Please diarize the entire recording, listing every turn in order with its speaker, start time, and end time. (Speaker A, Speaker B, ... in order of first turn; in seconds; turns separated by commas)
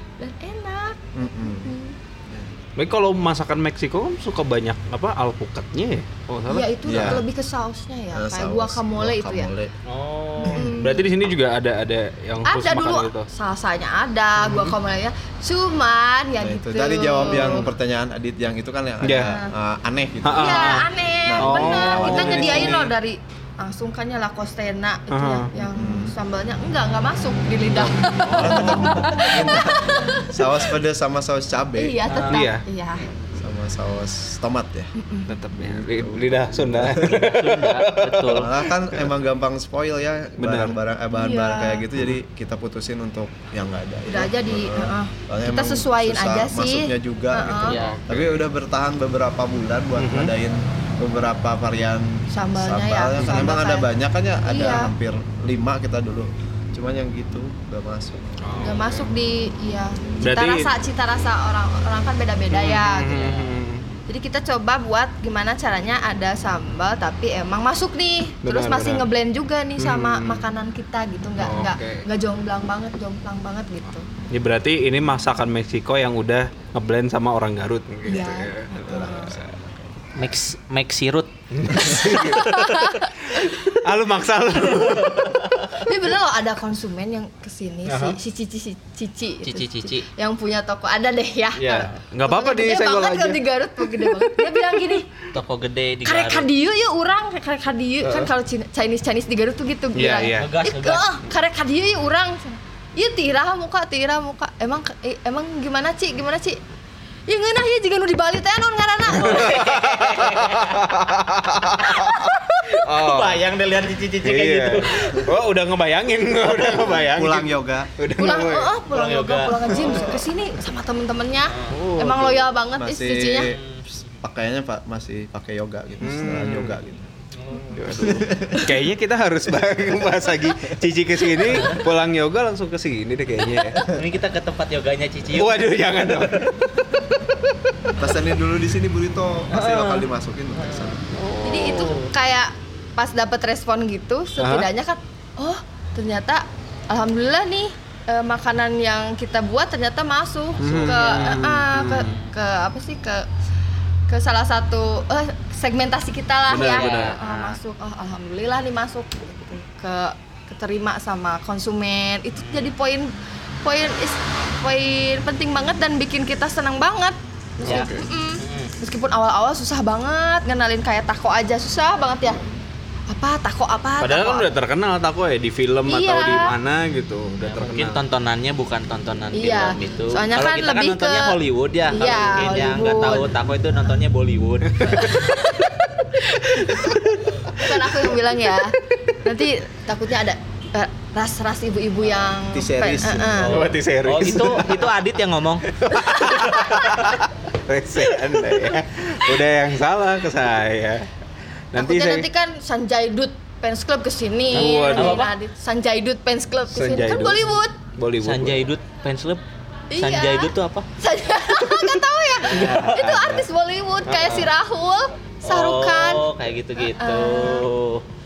Speaker A: 0.2-2.0, Speaker B: 1.1-1.7, Speaker B: 2.3-2.5, Speaker C: 2.8-7.2, Speaker A: 6.5-9.5, Speaker B: 6.8-7.2, Speaker B: 8.1-9.7, Speaker D: 9.9-10.7, Speaker C: 10.2-13.3, Speaker A: 10.5-11.1, Speaker A: 12.4-17.7, Speaker C: 14.4-14.8, Speaker B: 16.4-22.9, Speaker C: 17.3-17.6, Speaker C: 19.0-19.3, Speaker A: 19.3-19.5, Speaker C: 20.2-20.9, Speaker A: 20.4-30.6, Speaker C: 21.4-22.9, Speaker C: 25.1-25.5, Speaker B: 25.5-26.1, Speaker C: 27.7-29.1, Speaker B: 28.3-32.0, Speaker A: 31.8-33.1, Speaker C: 32.1-32.6, Speaker B: 33.2-34.9, Speaker A: 35.0-35.3, Speaker C: 35.3-39.1, Speaker B: 35.6-37.3, Speaker D: 37.1-38.5, Speaker B: 38.3-58.6, Speaker C: 40.4-40.8, Speaker A: 41.1-41.8, Speaker A: 44.1-47.8, Speaker D: 47.7-48.0, Speaker C: 48.1-48.4, Speaker C: 50.0-50.3, Speaker A: 52.3-53.9, Speaker A: 54.4-54.9, Speaker C: 58.4-59.1, Speaker A: 58.6-63.4, Speaker C: 60.2-60.7, Speaker C: 62.5-63.9, Speaker D: 63.1-63.4, Speaker A: 64.1-74.1, Speaker C: 68.4-69.1, Speaker C: 69.8-70.5, Speaker C: 71.4-72.1, Speaker C: 74.3-79.5, Speaker A: 78.1-79.4, Speaker B: 78.8-79.8, Speaker D: 80.2-82.7, Speaker C: 81.5-85.5, Speaker A: 81.8-83.7, Speaker A: 85.7-95.1, Speaker C: 87.9-88.2, Speaker D: 89.4-90.1, Speaker C: 91.6-94.6, Speaker D: 95.3-96.5, Speaker A: 96.0-106.6, Speaker C: 98.0-98.3, Speaker C: 100.0-100.5, Speaker D: 100.3-101.1, Speaker A: 107.3-109.5, Speaker D: 109.1-111.0, Speaker C: 109.1-113.4, Speaker D: 111.8-112.1, Speaker D: 112.7-115.3, Speaker C: 114.2-118.7, Speaker D: 116.4-117.0, Speaker B: 117.0-117.9, Speaker A: 118.2-123.6, Speaker D: 118.9-120.0, Speaker C: 119.7-120.2, Speaker D: 121.5-121.8, Speaker C: 121.7-122.5, Speaker B: 122.7-123.6, Speaker D: 123.4-124.2, Speaker B: 124.2-127.1, Speaker C: 126.0-126.8, Speaker D: 127.3-128.0, Speaker C: 127.7-133.9, Speaker B: 128.0-128.7, Speaker D: 131.4-131.8, Speaker D: 133.7-136.5, Speaker C: 135.3-136.5, Speaker B: 138.0-141.1, Speaker D: 139.5-142.1, Speaker C: 141.2-141.9, Speaker A: 141.4-153.3, Speaker C: 144.4-144.7, Speaker D: 150.6-151.3, Speaker C: 150.6-152.2, Speaker D: 152.0-152.3, Speaker A: 154.1-172.5, Speaker C: 156.5-157.2, Speaker D: 156.6-157.5, Speaker D: 162.4-162.7, Speaker C: 167.6-168.1, Speaker D: 167.7-168.7, Speaker A: 173.1-174.5, Speaker C: 174.0-178.0, Speaker A: 175.9-176.6, Speaker D: 177.4-185.2, Speaker A: 179.3-183.3, Speaker C: 184.7-185.3, Speaker A: 184.9-186.9, Speaker C: 186.7-188.2, Speaker A: 187.5-193.6, Speaker B: 192.5-193.5, Speaker D: 193.3-197.2, Speaker C: 193.5-194.9, Speaker C: 195.8-201.1, Speaker D: 198.0-198.8, Speaker C: 201.7-202.3, Speaker A: 201.8-207.8, Speaker C: 204.5-205.2, Speaker D: 204.5-205.3, Speaker C: 206.7-208.7, Speaker D: 208.2-209.4, Speaker A: 209.9-216.3, Speaker D: 210.0-210.9, Speaker D: 212.4-213.1, Speaker C: 212.5-213.5, Speaker C: 214.1-214.5, Speaker D: 215.5-218.0, Speaker A: 216.8-217.7